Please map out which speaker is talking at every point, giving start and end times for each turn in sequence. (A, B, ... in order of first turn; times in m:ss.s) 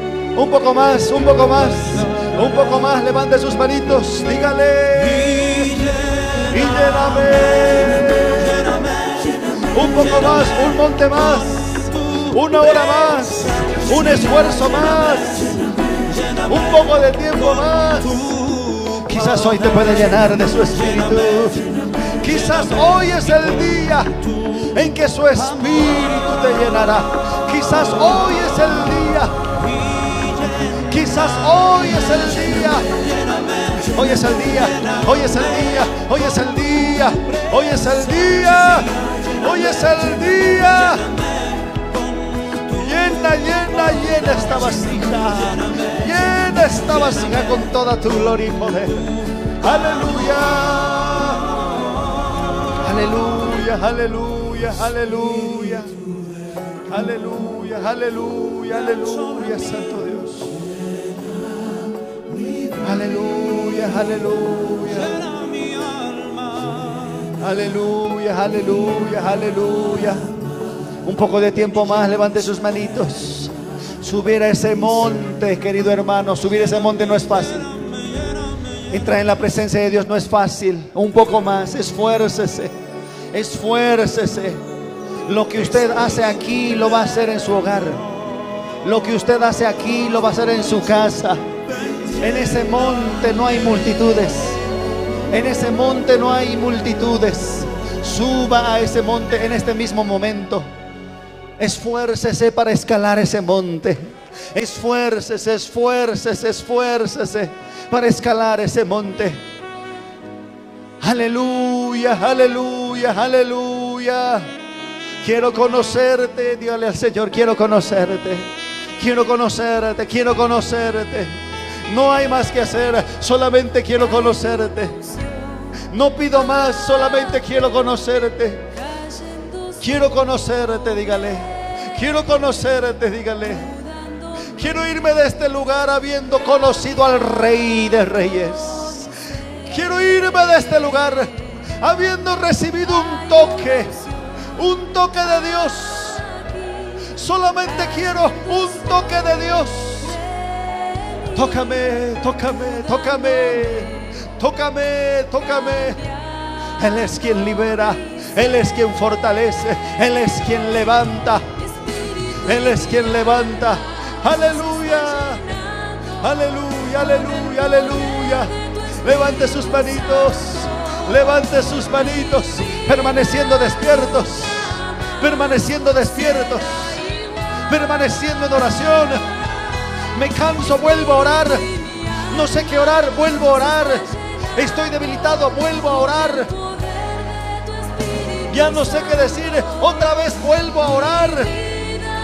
0:00.4-0:15.7 A
0:16.2-0:29.4 A
0:30.6-0:41.2 A
0:42.7-0:51.7 A
0:52.8-0:56.0 A
0:56.9-1:00.6 A
1:02.8-1:05.4 A
1:07.4-1:10.3 A
1:11.0-1:17.7 A
1:18.9-1:22.7 A
1:23.3-1:24.6 A
1:25.3-1:28.0 A
1:28.8-1:31.4 A
1:32.2-1:34.6 A
1:35.3-1:40.7 A
1:41.6-1:44.0 A
1:44.5-1:49.4 A
1:51.0-1:54.5 A
1:55.2-2:05.1 A
2:05.9-2:08.7 A
2:09.8-2:13.8 A
2:14.4-2:19.1 A
2:19.7-2:24.0 A
2:24.6-2:26.3 A
2:27.0-2:30.2 A
2:31.3-2:36.1 A
2:36.8-2:41.4 A
2:42.4-2:57.1 A
2:57.7-2:59.2 A
3:00.1-3:01.7 A
3:02.3-3:06.6 A
3:08.4-3:11.7 A